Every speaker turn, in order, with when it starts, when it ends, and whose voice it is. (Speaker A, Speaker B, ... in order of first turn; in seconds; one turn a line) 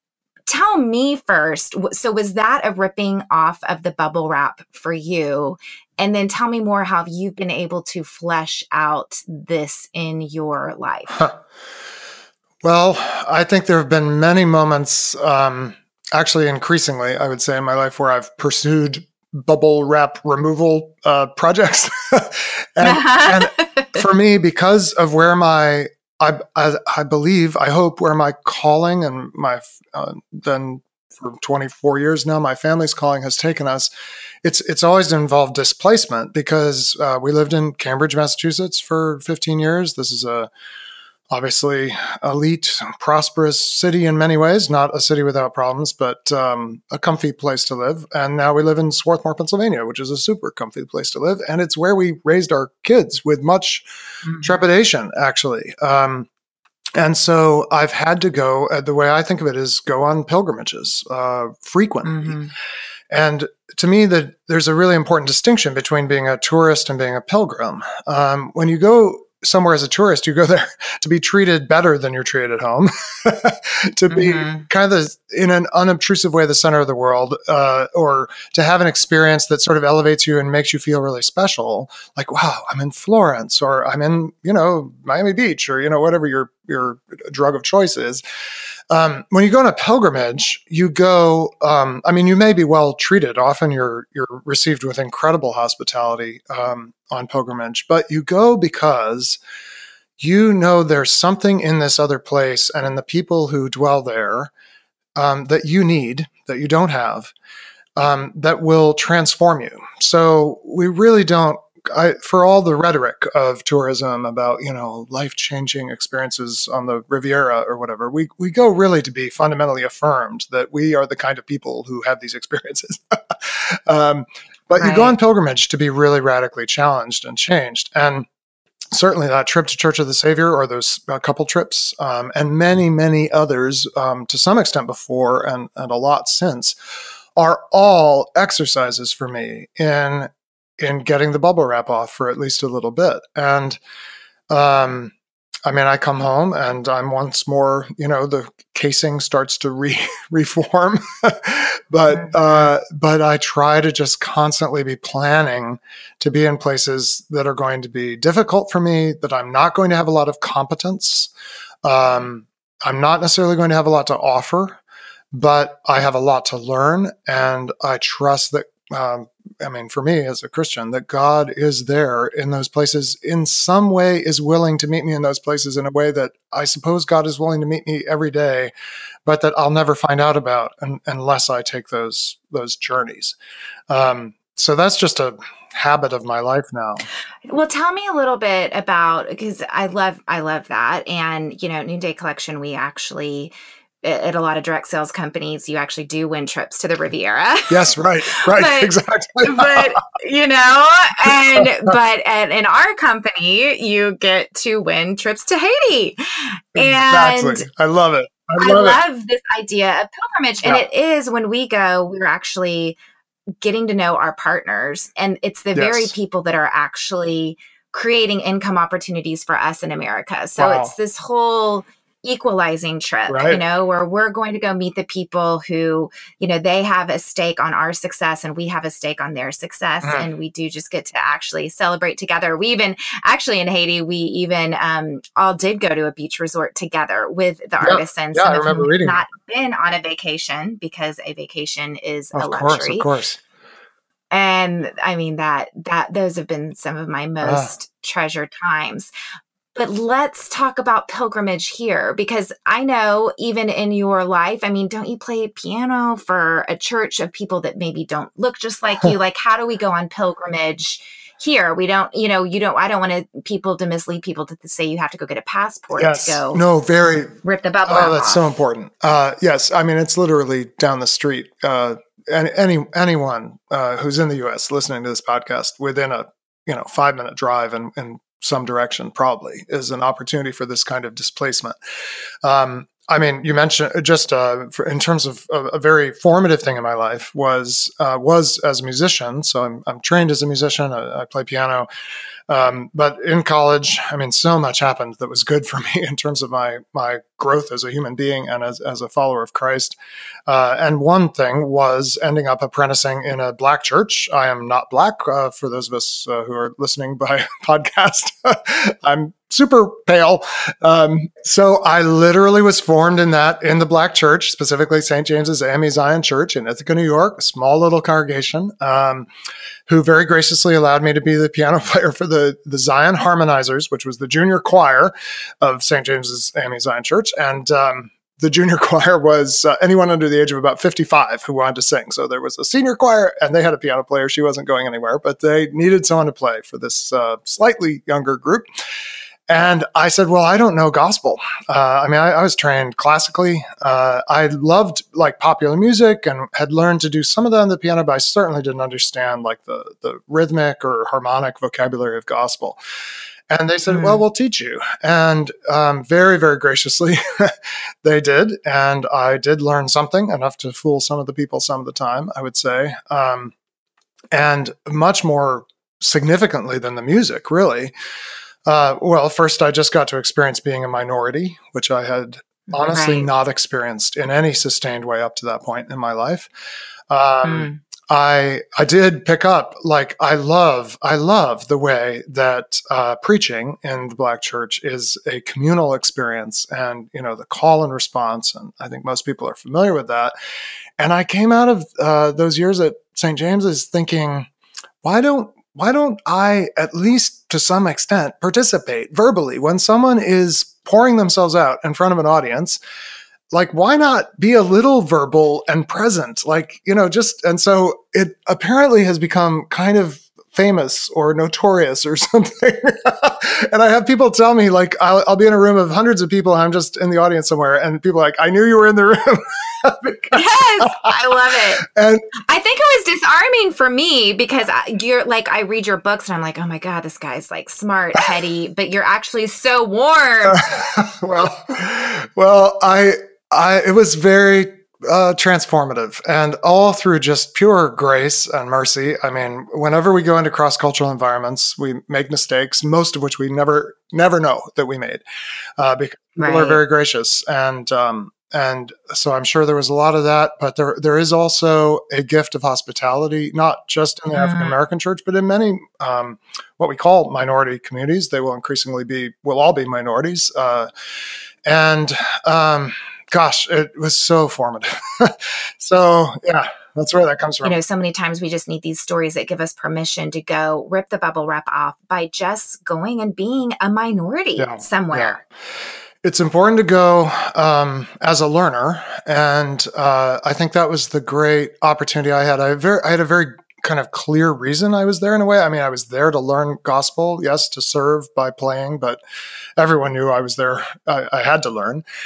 Speaker A: 0.5-11.3
Speaker B: 12.6-33.9
Speaker A: 22.8-24.0
Speaker B: 34.4-40.5
Speaker B: 41.3-53.9
Speaker A: 54.2-54.5
Speaker B: 54.4-56.3
Speaker B: 57.0-62.4
Speaker A: 62.0-62.5
Speaker B: 63.1-88.2
Speaker A: 74.1-74.7
Speaker B: 88.9-99.4
Speaker B: 100.2-104.5
Speaker B: 105.2-107.3
Speaker B: 108.0-128.3
Speaker A: 124.8-125.2
Speaker B: 128.9-136.7
Speaker B: 137.3-143.8
Speaker B: 144.5-145.1
Speaker B: 145.7-161.3
Speaker A: 152.1-152.7
Speaker B: 161.8-164.8
Speaker B: 165.3-178.7
Speaker B: 179.2-183.3
Speaker B: 183.9-187.0
Speaker A: 187.5-207.7
Speaker B: 197.7-199.9
Speaker B: 206.7-209.0
Speaker A: 208.6-213.0
Speaker A: 213.6-243.1
Speaker B: 215.7-216.1
Speaker B: 220.6-220.9
Speaker B: 223.3-223.6
Speaker B: 237.8-239.2
Speaker B: 242.3-243.4
Speaker A: 244.3-249.1
Speaker B: 247.4-247.7
Speaker A: 249.8-266.6
Speaker B: 265.9-281.8
Speaker A: 267.4-268.4
Speaker B: 282.4-291.9
Speaker B: 292.5-299.9
Speaker B: 300.5-319.3
Speaker B: 319.9-338.6
Speaker B: 339.5-352.8
Speaker B: 353.5-363.5
Speaker A: 353.9-354.2
Speaker B: 364.3-367.9
Speaker B: 368.6-376.5
Speaker A: 372.9-373.3
Speaker B: 377.1-390.3
Speaker A: 377.4-377.8
Speaker B: 391.0-394.5
Speaker B: 395.0-402.8
Speaker B: 403.5-421.1
Speaker A: 420.3-421.8
Speaker B: 421.8-422.2
Speaker A: 422.5-430.6
Speaker B: 430.5-445.2
Speaker B: 445.8-460.9
Speaker A: 446.4-446.8
Speaker A: 454.3-454.7
Speaker B: 461.6-467.8
Speaker A: 467.6-475.4
Speaker B: 474.6-475.4
Speaker B: 476.2-489.2
Speaker B: 489.8-492.0